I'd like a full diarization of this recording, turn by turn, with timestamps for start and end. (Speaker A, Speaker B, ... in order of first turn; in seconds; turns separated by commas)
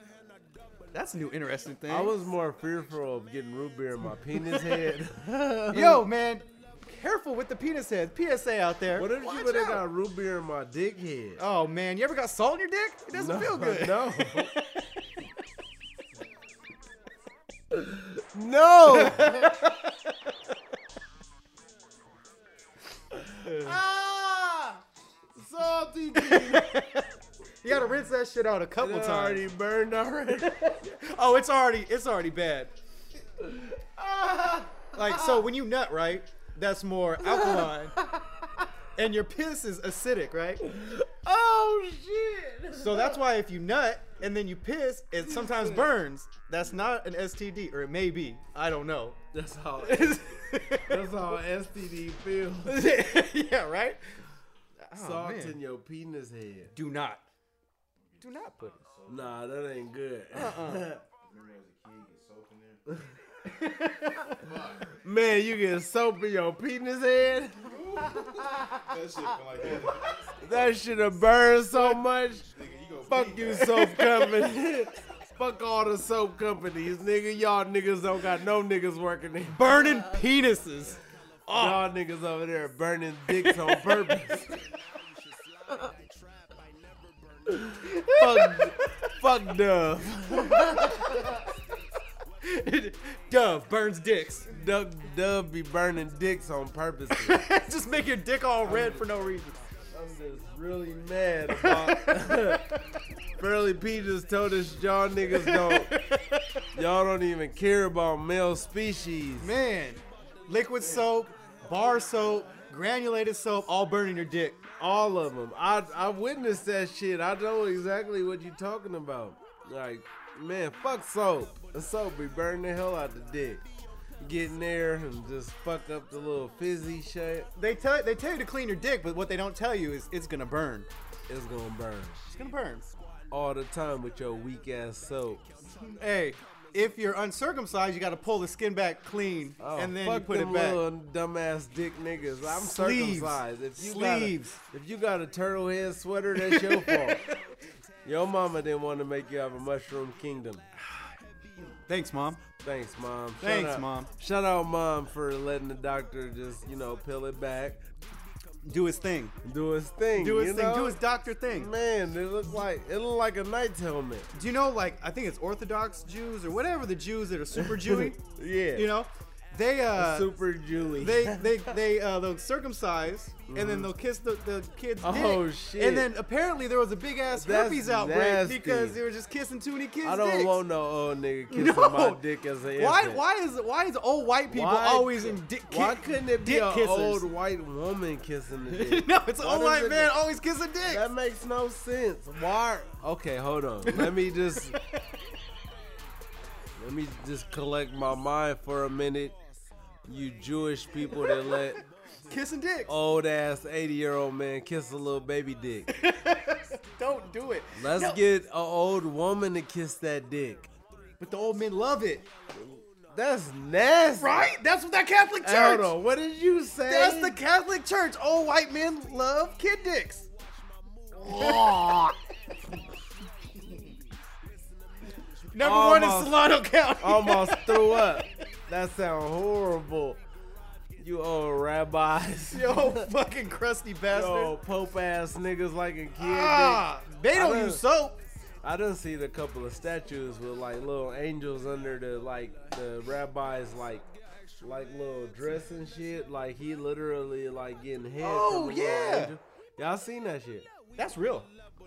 Speaker A: 0.9-2.2, Speaker B: 1.9-6.0, Speaker A: 4.3-4.8, Speaker A: 5.7-9.8, Speaker B: 8.9-11.4, Speaker A: 11.4-15.2, Speaker B: 13.1-14.5, Speaker B: 17.7-19.6, Speaker A: 18.9-20.1, Speaker B: 23.4-24.5, Speaker A: 23.4-23.8, Speaker B: 25.4-26.7, Speaker A: 26.1-27.1, Speaker A: 27.6-29.4, Speaker B: 28.8-30.7, Speaker A: 30.4-32.7, Speaker B: 33.4-35.5, Speaker A: 34.9-38.0, Speaker B: 37.2-38.7, Speaker A: 39.0-40.7, Speaker B: 40.6-43.2, Speaker A: 42.8-49.2, Speaker B: 45.2-45.9, Speaker B: 49.3-52.8, Speaker A: 49.8-51.1, Speaker A: 52.6-54.2, Speaker A: 54.8-55.6, Speaker B: 55.0-56.7, Speaker A: 56.7-57.2, Speaker C: 58.0-60.0, Speaker A: 58.2-58.8, Speaker B: 59.1-61.0, Speaker A: 60.3-60.9, Speaker C: 61.1-63.0, Speaker A: 63.5-64.5, Speaker C: 64.4-65.0, Speaker B: 65.0-68.3, Speaker C: 67.7-70.8, Speaker B: 70.4-72.5, Speaker C: 72.4-73.9, Speaker B: 73.1-79.9, Speaker A: 73.1-74.4, Speaker A: 79.5-81.8, Speaker B: 81.5-84.5, Speaker A: 83.4-84.6, Speaker B: 87.5-91.3, Speaker A: 87.8-89.2, Speaker A: 90.3-91.5, Speaker A: 92.4-94.5, Speaker B: 94.5-97.4, Speaker A: 97.1-99.6, Speaker B: 98.7-99.0, Speaker B: 99.9-102.7, Speaker A: 101.5-102.8, Speaker B: 103.4-105.9, Speaker A: 105.3-106.7, Speaker B: 106.7-109.5, Speaker A: 109.4-114.6, Speaker B: 114.8-123.6, Speaker B: 124.2-127.5, Speaker A: 127.6-130.9, Speaker B: 131.3-132.2, Speaker A: 132.3-132.9, Speaker B: 133.3-135.4, Speaker A: 135.7-140.8, Speaker B: 139.6-147.2, Speaker A: 142.4-144.6, Speaker A: 146.3-147.4, Speaker B: 148.1-150.6, Speaker A: 151.6-152.4, Speaker B: 152.6-157.8, Speaker A: 153.4-154.1, Speaker A: 158.6-159.3, Speaker B: 159.4-161.0, Speaker A: 160.2-161.7, Speaker B: 161.5-164.3, Speaker A: 164.3-168.2, Speaker B: 167.6-168.9, Speaker A: 168.7-170.3, Speaker B: 169.9-171.8, Speaker A: 171.0-180.6, Speaker B: 173.5-173.9, Speaker B: 175.0-176.1, Speaker B: 177.3-179.0, Speaker B: 180.0-183.2, Speaker A: 181.5-182.2, Speaker A: 182.8-187.3, Speaker B: 184.5-190.2, Speaker A: 188.7-191.0, Speaker B: 190.8-194.8, Speaker A: 193.9-195.0, Speaker B: 196.8-199.4, Speaker B: 200.1-201.8, Speaker A: 201.0-201.7, Speaker A: 202.3-202.9, Speaker B: 202.9-205.9, Speaker A: 205.9-208.2, Speaker B: 207.8-210.7, Speaker A: 211.2-212.3, Speaker B: 212.6-214.5, Speaker A: 214.2-215.9, Speaker B: 215.4-217.4, Speaker A: 216.8-220.3, Speaker A: 221.2-222.2, Speaker B: 221.2-222.1, Speaker A: 225.5-228.3, Speaker B: 225.6-226.5, Speaker B: 227.0-230.2, Speaker B: 231.0-233.1, Speaker A: 232.5-234.6, Speaker B: 234.1-237.8, Speaker A: 236.2-238.2, Speaker B: 238.6-250.7, Speaker A: 248.2-249.3, Speaker A: 251.0-251.5